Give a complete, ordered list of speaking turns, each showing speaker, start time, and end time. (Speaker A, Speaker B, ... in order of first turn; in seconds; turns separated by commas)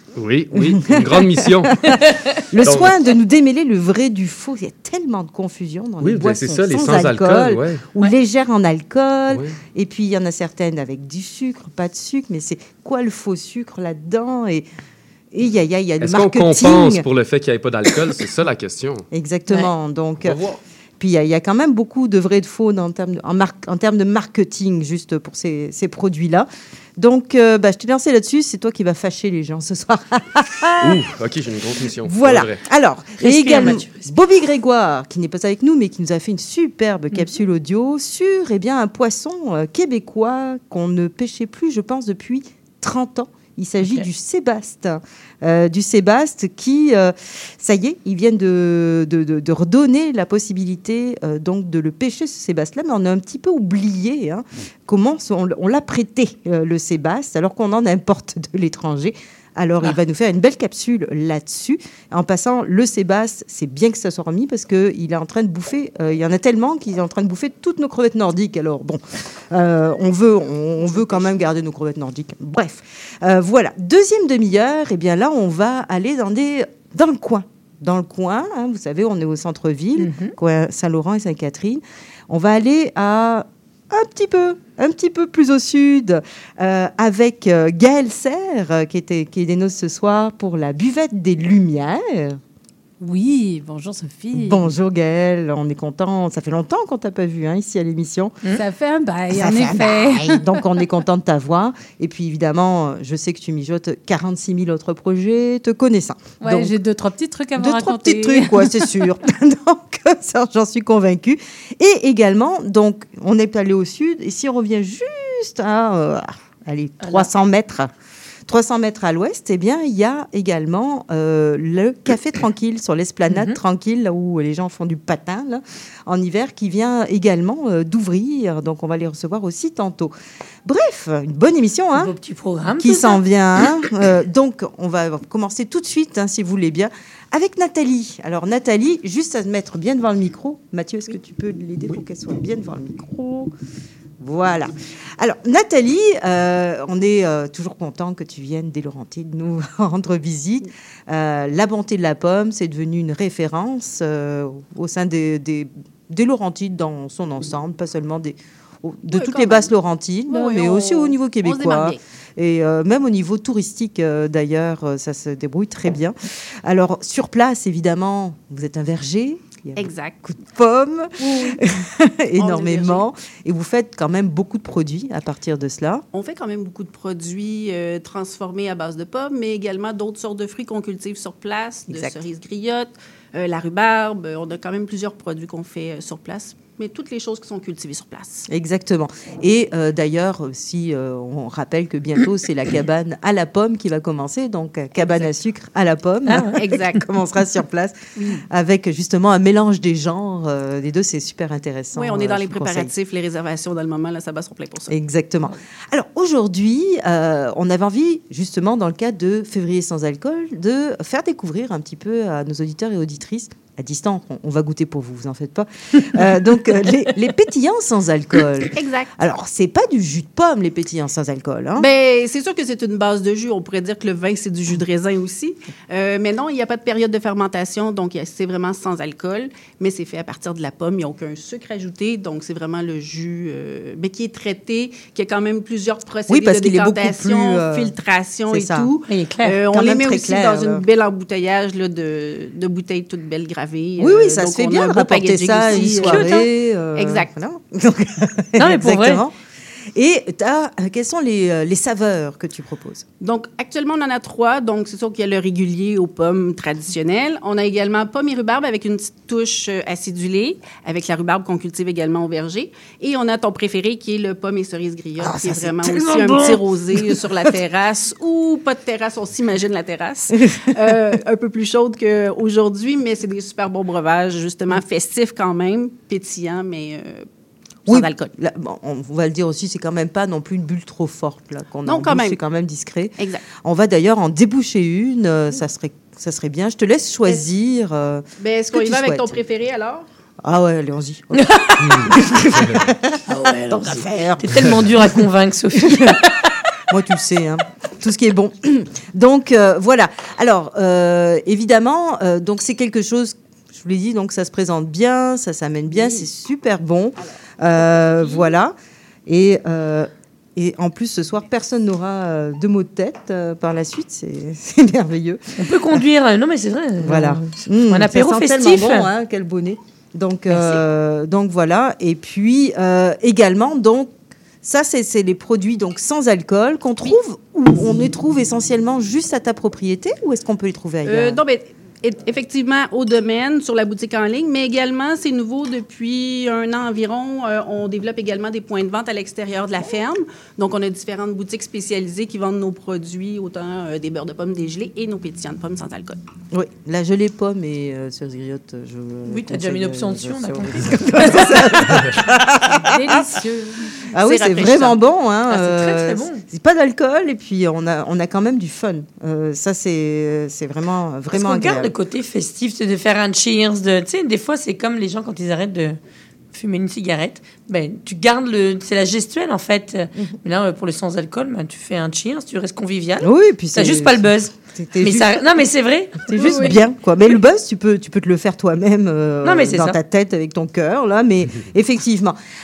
Speaker A: 0.2-1.8, Speaker B: 0.5-14.7, Speaker C: 1.9-2.2, Speaker A: 2.6-3.0, Speaker A: 6.0-7.8, Speaker A: 9.3-9.6, Speaker B: 15.3-17.1, Speaker A: 16.0-19.1, Speaker B: 19.1-20.4, Speaker A: 20.2-20.6, Speaker B: 21.0-31.0, Speaker A: 30.8-32.6, Speaker B: 32.0-92.4, Speaker C: 33.2-34.1, Speaker C: 80.0-80.3, Speaker D: 93.0-94.6, Speaker B: 94.3-98.4, Speaker D: 98.5-100.5, Speaker B: 99.3-106.7, Speaker D: 106.4-108.9, Speaker B: 107.6-117.9, Speaker C: 117.0-117.3, Speaker B: 118.5-130.1, Speaker C: 123.3-123.6, Speaker B: 130.7-132.1, Speaker C: 131.9-133.2, Speaker B: 132.8-143.5, Speaker B: 144.2-176.1, Speaker E: 159.1-159.7, Speaker E: 160.3-162.0, Speaker E: 169.8-170.2, Speaker E: 171.2-171.6, Speaker E: 172.4-173.1, Speaker E: 176.1-188.5, Speaker B: 181.9-182.2, Speaker B: 188.5-198.0, Speaker E: 195.0-195.3, Speaker C: 196.3-196.6, Speaker E: 196.6-197.1, Speaker E: 198.2-198.4, Speaker B: 198.5-202.9, Speaker E: 201.9-204.9, Speaker B: 204.9-221.9, Speaker E: 218.7-219.1, Speaker E: 221.8-247.3, Speaker B: 236.3-237.9, Speaker B: 238.5-238.9, Speaker C: 239.1-239.6, Speaker B: 239.7-240.8, Speaker B: 244.0-249.3, Speaker C: 245.7-246.3, Speaker C: 248.6-249.2, Speaker B: 249.9-253.1, Speaker E: 253.2-277.3, Speaker B: 265.2-266.0, Speaker C: 265.8-266.6, Speaker E: 277.9-278.2, Speaker B: 277.9-289.3, Speaker E: 281.8-282.4, Speaker E: 283.2-283.4, Speaker E: 288.4-290.1, Speaker B: 290.4-295.1, Speaker C: 291.4-292.2, Speaker C: 293.3-296.4, Speaker B: 295.8-296.2, Speaker B: 296.9-308.7, Speaker E: 305.9-306.3, Speaker E: 307.9-308.5, Speaker B: 309.3-315.4, Speaker C: 315.6-319.1, Speaker B: 317.0-324.1, Speaker C: 320.5-320.8, Speaker B: 324.6-331.4, Speaker E: 331.1-346.2, Speaker B: 346.5-353.3, Speaker C: 349.3-352.1, Speaker D: 352.8-354.0, Speaker B: 354.1-361.9, Speaker C: 354.4-354.9, Speaker C: 355.5-356.4, Speaker C: 361.3-366.0, Speaker C: 366.5-376.6, Speaker B: 373.2-375.4, Speaker B: 376.2-382.4, Speaker E: 376.3-376.8, Speaker C: 379.4-380.0